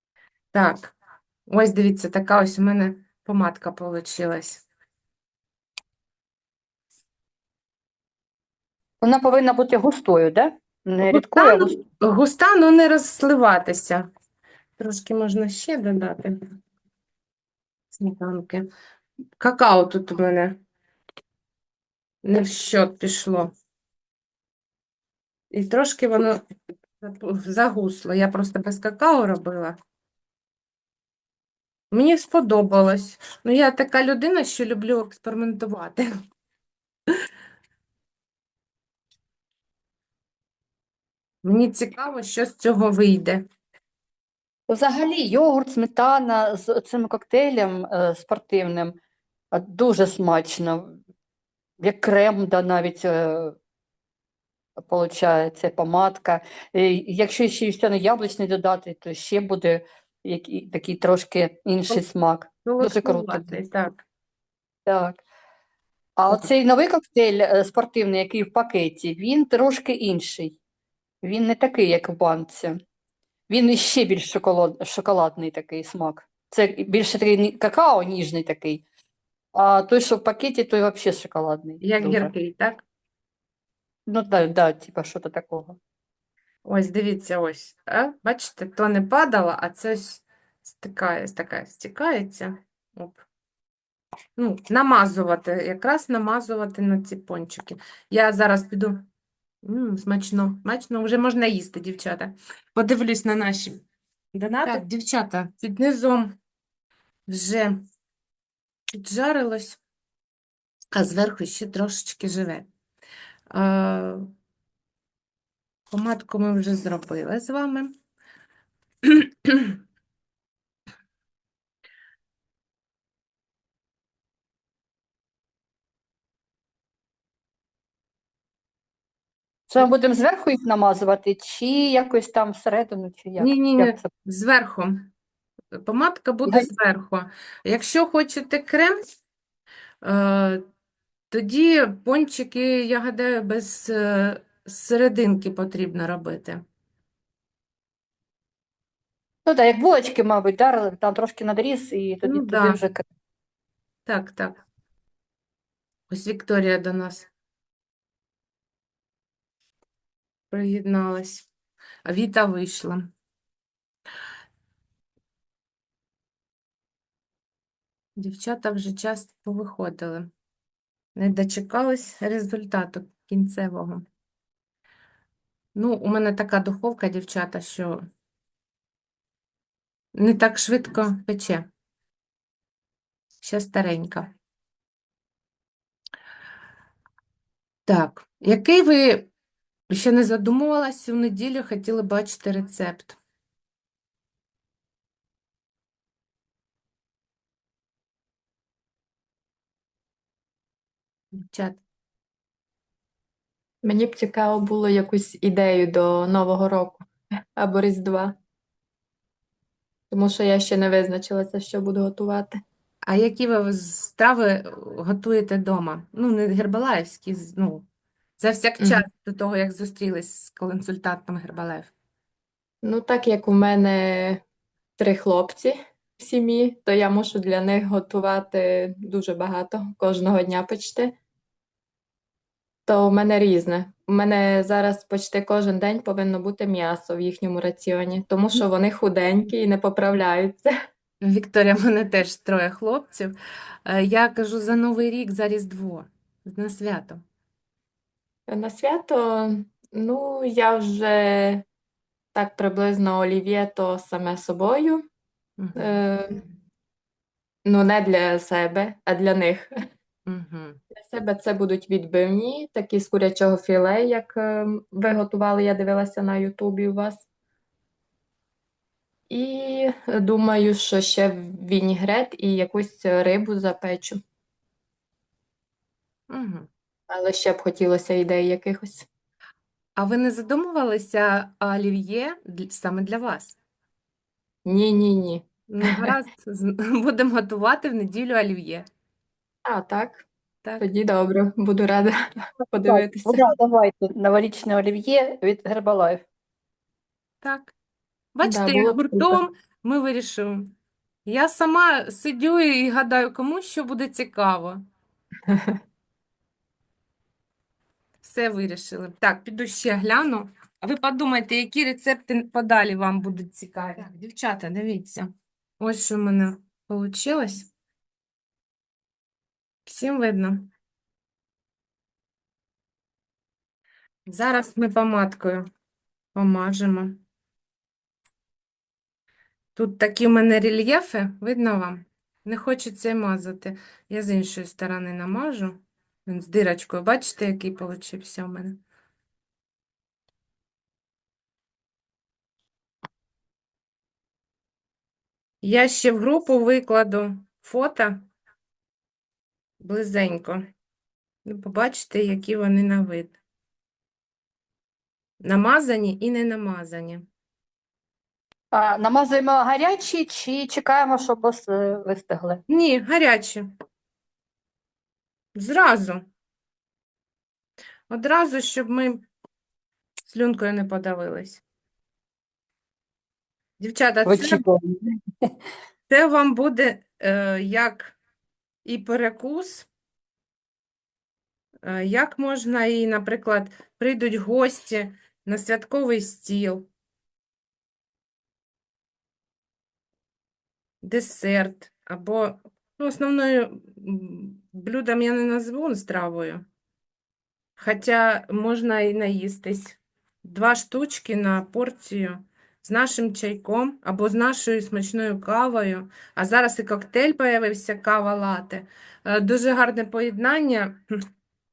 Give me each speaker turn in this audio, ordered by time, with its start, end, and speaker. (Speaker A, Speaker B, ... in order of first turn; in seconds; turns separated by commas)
Speaker A: 0.5-0.9, Speaker A: 1.5-4.6, Speaker B: 9.0-11.7, Speaker A: 11.0-14.1, Speaker A: 14.8-16.4, Speaker A: 17.9-18.6, Speaker A: 19.4-20.6, Speaker A: 22.2-23.5, Speaker A: 25.5-26.4, Speaker A: 27.0-29.8, Speaker A: 31.9-36.1, Speaker A: 41.4-43.5, Speaker B: 44.7-49.0, Speaker B: 49.5-51.0, Speaker B: 51.8-53.6, Speaker B: 54.8-63.6, Speaker A: 62.6-64.0, Speaker B: 64.9-65.2, Speaker B: 66.2-70.6, Speaker B: 71.2-72.8, Speaker B: 73.5-78.8, Speaker B: 79.5-82.3, Speaker A: 81.8-82.8, Speaker B: 84.1-85.8, Speaker A: 86.6-93.2, Speaker A: 94.4-99.0, Speaker A: 99.6-103.8, Speaker A: 104.3-106.3, Speaker A: 107.3-107.8, Speaker A: 108.9-109.8, Speaker A: 110.9-112.7, Speaker A: 113.5-114.3, Speaker A: 115.9-117.9, Speaker A: 119.0-119.8, Speaker B: 129.7-134.1, Speaker A: 133.4-135.1, Speaker A: 135.8-139.1, Speaker A: 140.0-140.7, Speaker A: 141.3-146.6, Speaker B: 149.5-153.0, Speaker A: 152.2-152.8, Speaker A: 154.1-154.6, Speaker A: 156.1-157.3, Speaker A: 160.5-161.5, Speaker A: 162.1-163.1, Speaker A: 168.2-170.3, Speaker A: 171.2-174.1, Speaker A: 175.8-178.1, Speaker A: 180.1-181.7, Speaker A: 183.4-184.3, Speaker A: 187.9-189.3, Speaker A: 189.9-193.2, Speaker A: 201.3-201.8, Speaker C: 203.8-208.3, Speaker C: 210.1-212.6, Speaker A: 213.1-217.8, Speaker A: 218.4-221.9, Speaker C: 222.8-224.4, Speaker C: 225.0-231.1, Speaker C: 232.9-240.7, Speaker A: 241.2-247.2, Speaker C: 248.5-251.6, Speaker C: 252.3-255.1, Speaker A: 255.6-256.0, Speaker C: 255.8-256.4, Speaker C: 257.6-259.7, Speaker A: 260.3-260.8, Speaker C: 260.9-267.3, Speaker C: 269.3-274.2, Speaker A: 276.3-276.7, Speaker C: 277.1-279.1, Speaker A: 280.0-283.6, Speaker C: 284.6-286.1, Speaker A: 285.7-288.9, Speaker C: 289.6-290.3, Speaker C: 290.8-293.5, Speaker B: 292.9-296.2, Speaker A: 297.4-297.7, Speaker A: 298.4-300.7, Speaker C: 298.4-299.4, Speaker A: 301.3-304.8, Speaker C: 305.5-305.8, Speaker A: 308.2-317.7, Speaker A: 319.9-320.7, Speaker A: 324.3-325.7, Speaker A: 326.4-327.2, Speaker A: 329.8-338.8, Speaker A: 345.6-348.3, Speaker A: 349.8-350.6, Speaker A: 351.4-353.4, Speaker A: 355.4-357.2, Speaker B: 358.7-362.6, Speaker A: 362.7-363.7, Speaker A: 365.6-366.3, Speaker A: 368.1-369.3, Speaker A: 370.3-371.6, Speaker A: 373.8-374.6, Speaker B: 374.3-375.6, Speaker A: 376.1-378.1, Speaker A: 378.9-379.9, Speaker A: 381.8-386.9, Speaker A: 391.0-396.6, Speaker A: 397.8-411.2